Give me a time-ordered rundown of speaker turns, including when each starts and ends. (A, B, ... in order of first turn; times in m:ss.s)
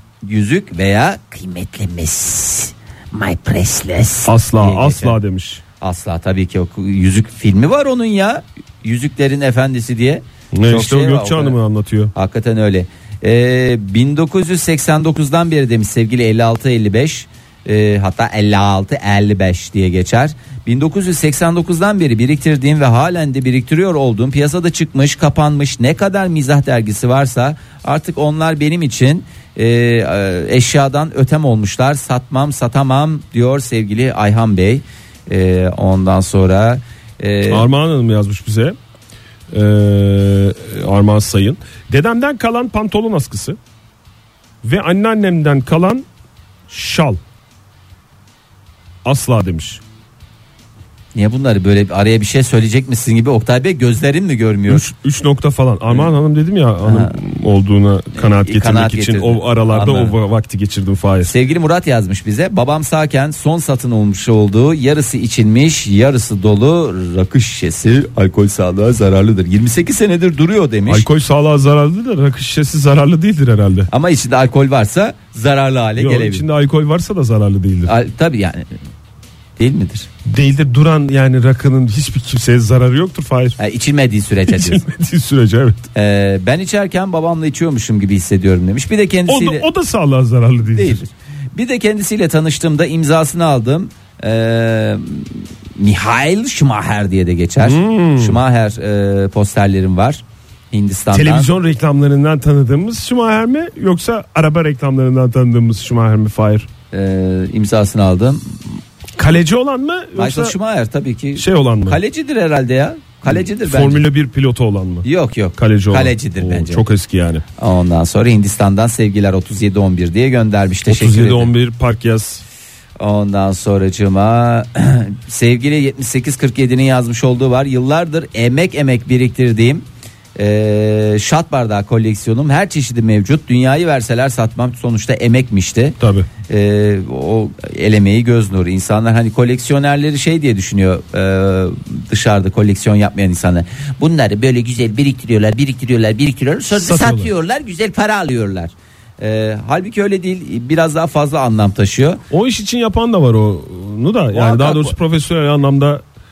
0:00.2-0:05.2 A
0:04.3-0:05.6 B
0:05.8-0:11.6 A
0:10.5-0:12.1 B
0:12.1-0:37.7 A
0:37.5-0:38.8 B
0:39.5-0:43.6 B
0:44.6-0:46.1 B
0:46.7-0:47.2 B
0:49.0-0:49.8 B
0:51.2-0:54.9 A
0:54.7-1:01.3 B
0:56.8-0:57.1 A
0:58.2-1:00.2 A
1:01.2-1:11.1 A
1:10.9-1:13.9 B
1:13.9-1:16.4 A
1:16.0-1:17.9 B
1:17.9-1:18.7 A
1:19.6-1:20.1 A
1:20.2-1:23.6 B
1:23.6-1:24.8 A
1:24.5-1:25.9 B
1:25.9-1:29.7 A
1:29.3-1:31.0 B
1:30.7-1:41.5 A
1:37.6-1:38.4 B
1:41.1-1:46.7 B
1:46.9-1:48.6 A
1:49.2-1:50.6 B
1:50.2-1:54.0 A
1:51.4-1:52.0 B
1:53.3-1:57.4 B
1:55.0-1:56.8 A
1:57.6-2:01.5 A
2:00.9-2:02.4 B
2:03.0-2:09.8 A
2:10.4-2:16.0 A
2:16.0-2:16.3 B
2:16.5-2:32.2 A
2:26.7-2:27.3 B
2:32.3-2:36.0 B
2:34.3-2:35.0 A